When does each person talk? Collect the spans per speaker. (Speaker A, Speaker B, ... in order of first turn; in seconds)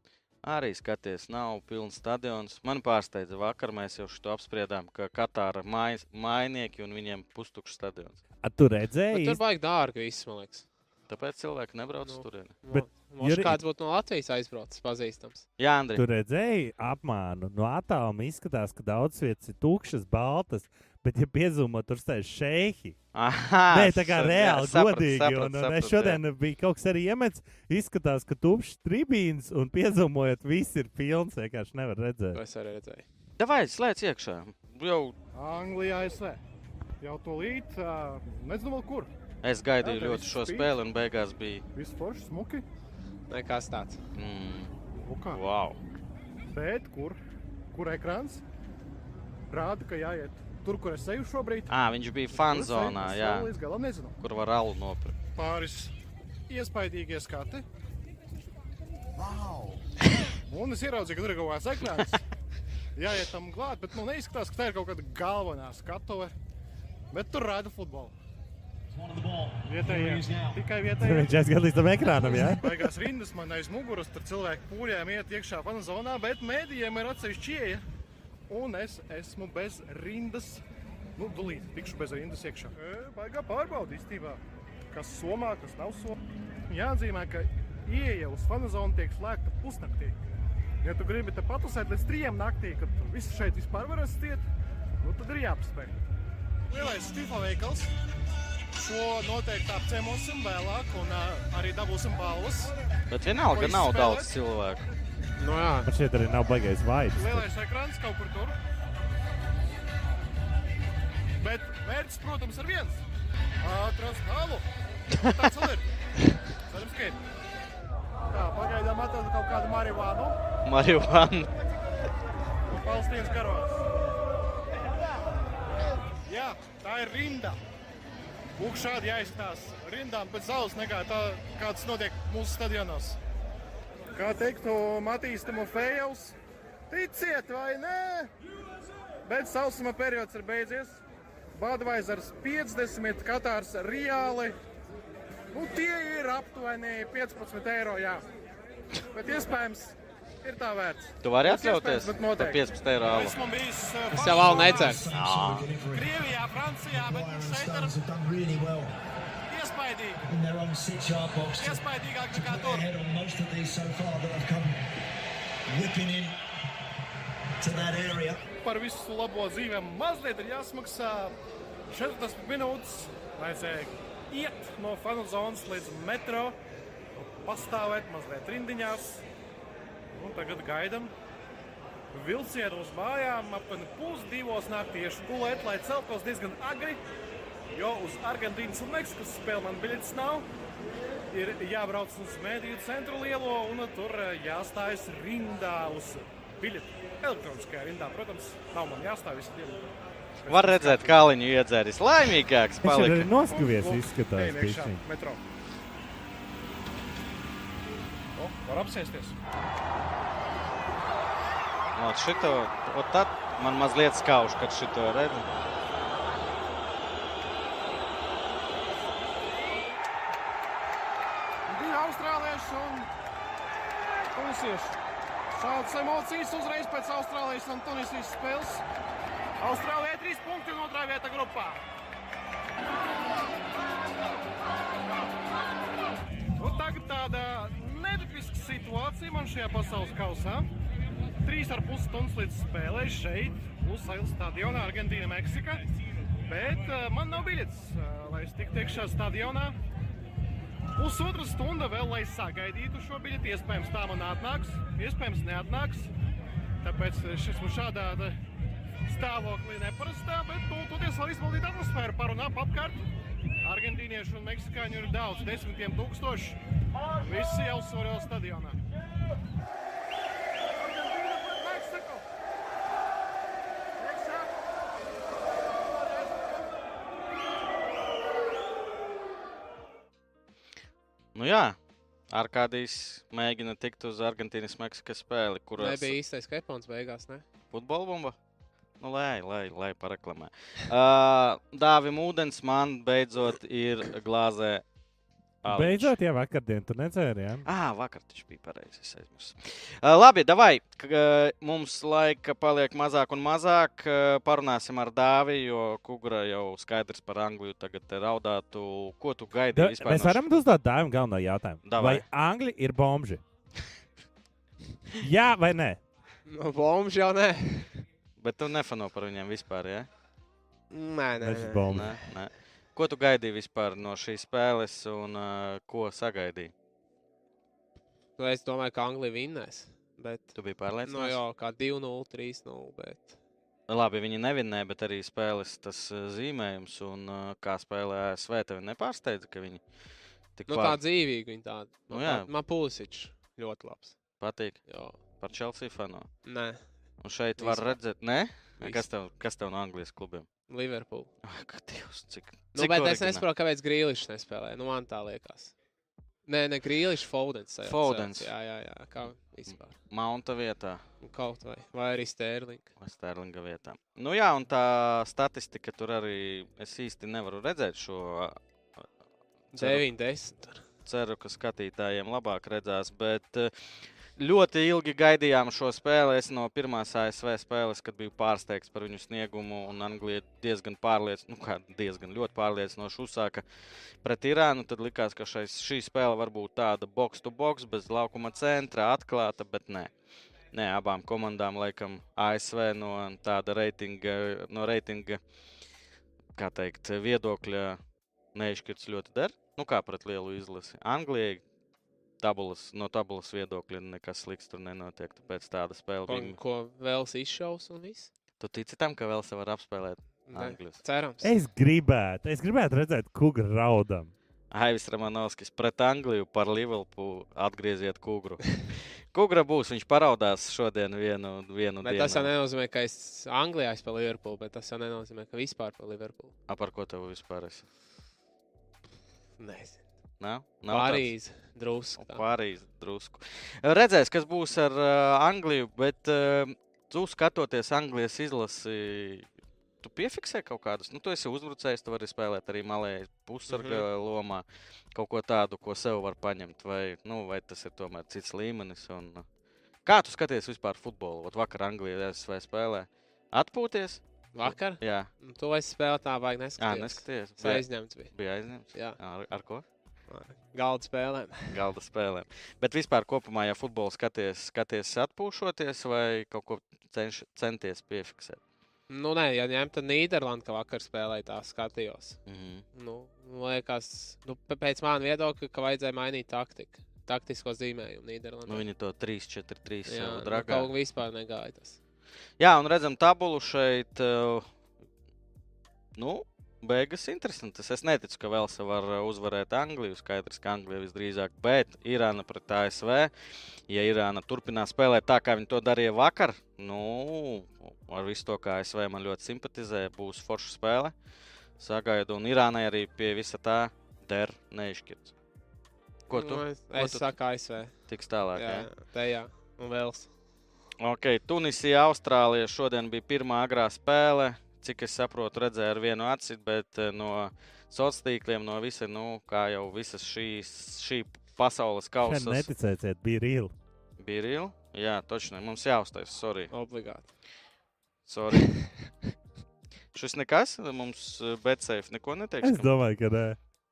Speaker A: 0.4-8.2, 11.1-12.5, 15.6-16.0, 23.1-26.2, 33.4-35.1, 39.4-41.6, 44.1-44.7, 45.3-45.8, 51.7-53.5, 54.2-55.1, 103.1-104.9, 120.6-121.5, 151.2-153.4, 155.1-155.7, 200.5-203.3, 211.9-215.5, 281.3-281.8, 282.3-286.2, 287.7-288.4, 289.0-294.8, 295.6-296.1, 297.6-310.5, 311.8-312.2, 318.4-320.1, 321.9-326.7, 330.6-331.4, 333.9-339.8, 340.6-341.0, 342.1-342.5, 344.4-346.3, 347.2-350.5, 351.4-353.4, 357.8-358.5, 359.7-361.0, 363.0-368.6, 369.7-370.1, 371.1-373.7, 374.4-383.6, 384.2-390.1, 390.7-395.4, 396.5-398.0, 398.5-401.6, 402.4-406.6, 408.6-411.0, 414.7-422.5, 426.7-427.9, 430.4-431.3, 432.2-439.5, 440.0-449.4, 450.0-455.3, 456.8-459.8, 461.7-468.6, 472.4-472.8, 478.7-480.9, 482.6-484.7, 486.1-493.3, 493.9-501.1, 501.8-505.3, 506.3-507.3, 508.1-508.9, 511.0-522.7, 524.2-526.7, 528.2-528.8, 530.1-532.9
Speaker B: 8.4-9.4, 12.7-13.6, 15.9-23.0, 23.7-32.4, 71.0-72.8, 105.8-107.5, 202.8-205.0, 295.6-297.6, 309.7-313.4, 315.2-316.0, 321.4-322.1, 411.4-414.3, 522.2-523.7, 532.6-533.6
Speaker C: 9.1-10.7, 12.1-15.4, 32.3-33.0, 43.3-44.0, 105.4-105.9, 154.1-155.0, 285.8-287.4, 316.5-318.1, 320.9-322.3, 328.4-333.4, 340.7-344.2, 344.9-345.2, 346.4-346.8, 347.6-348.0, 348.8-349.0, 350.7-351.3, 352.7-355.7, 356.5-359.9, 361.2-362.9, 369.7-370.8, 406.3-408.3, 410.5-411.5, 422.0-426.5, 429.6-430.0, 430.9-432.4, 443.7-444.1, 454.5-458.3, 458.9-459.2, 460.3-461.8, 469.1-472.4, 472.9-478.8, 480.1-482.0, 506.3-508.0, 508.5-510.3, 526.7-527.3, 528.6-529.1
Speaker D: 35.3-36.4, 37.0-39.1, 39.8-40.7, 41.7-42.6, 45.0-45.4, 46.5-47.2, 47.7-48.4, 49.5-51.7, 52.3-54.2, 55.4-55.9, 56.5-57.6, 60.5-62.2, 62.9-66.3, 67.1-68.1, 69.7-71.4, 72.0-77.8, 78.5-80.6, 81.2-90.2, 90.8-94.5, 95.0-96.0, 96.7-97.9, 98.7-102.7, 103.5-104.3, 107.1-108.6, 111.4-113.0, 113.6-115.8, 116.6-117.2, 118.3-120.4, 122.7-123.8, 126.2-127.6, 128.6-133.2, 134.1-136.4, 136.9-138.3, 139.2-141.0, 141.5-144.6, 145.5-148.2, 149.1-155.1, 155.9-157.9, 159.5-160.2, 161.6-162.9, 168.6-171.3, 171.9-176.6, 177.2-179.2, 180.1-181.1, 182.1-187.0, 187.7-190.5, 191.3-199.9, 200.4-201.2, 203.4-205.4, 208.3-209.4, 221.7-223.1, 224.3-225.0, 225.5-228.8, 229.6-231.8, 236.6-240.7, 241.4-245.8, 246.5-249.8, 250.9-256.1, 256.8-258.4, 259.1-263.0, 263.6-266.6, 267.2-268.8, 270.9-272.2, 274.0-274.6, 275.9-276.6
Speaker E: 59.1-59.8, 68.9-70.6, 154.1-156.2, 157.0-158.9, 160.2-164.8, 165.7-166.4, 167.6-168.4